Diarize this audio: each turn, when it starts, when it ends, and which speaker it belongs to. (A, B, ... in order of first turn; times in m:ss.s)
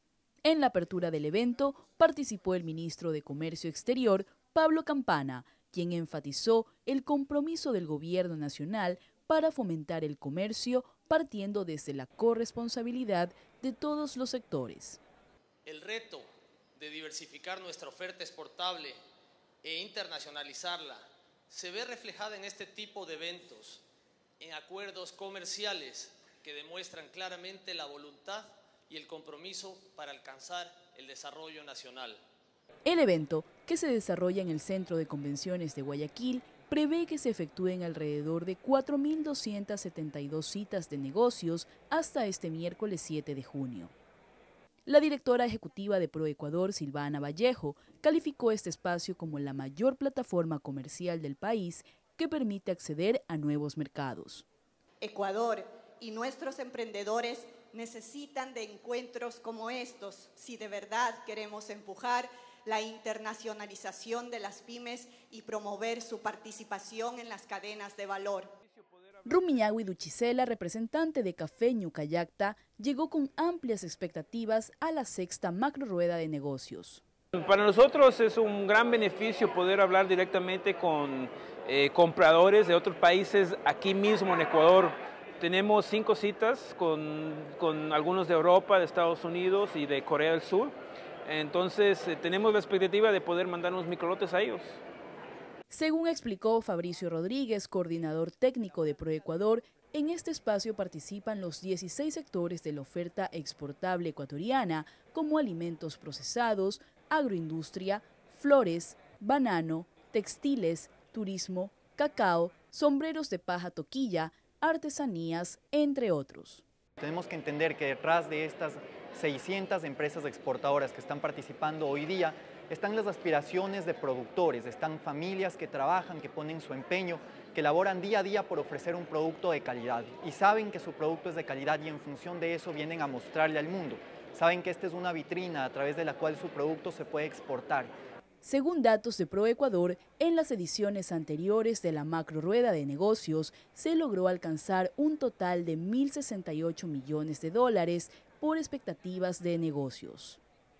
0:00.4-0:15.0 A
0:15.6-0:19.0 B
0:19.6-0:23.8 B
0:24.4-0:32.2 B
0:32.8-0:43.9 A
0:44.8-0:54.4 A
0:55.0-1:08.5 C
1:08.6-1:09.4 D
1:09.2-1:17.0 A
1:17.3-1:30.7 D
1:31.2-1:34.7 D
1:35.7-1:56.6 A
1:57.0-2:17.9 E
2:18.4-2:30.4 A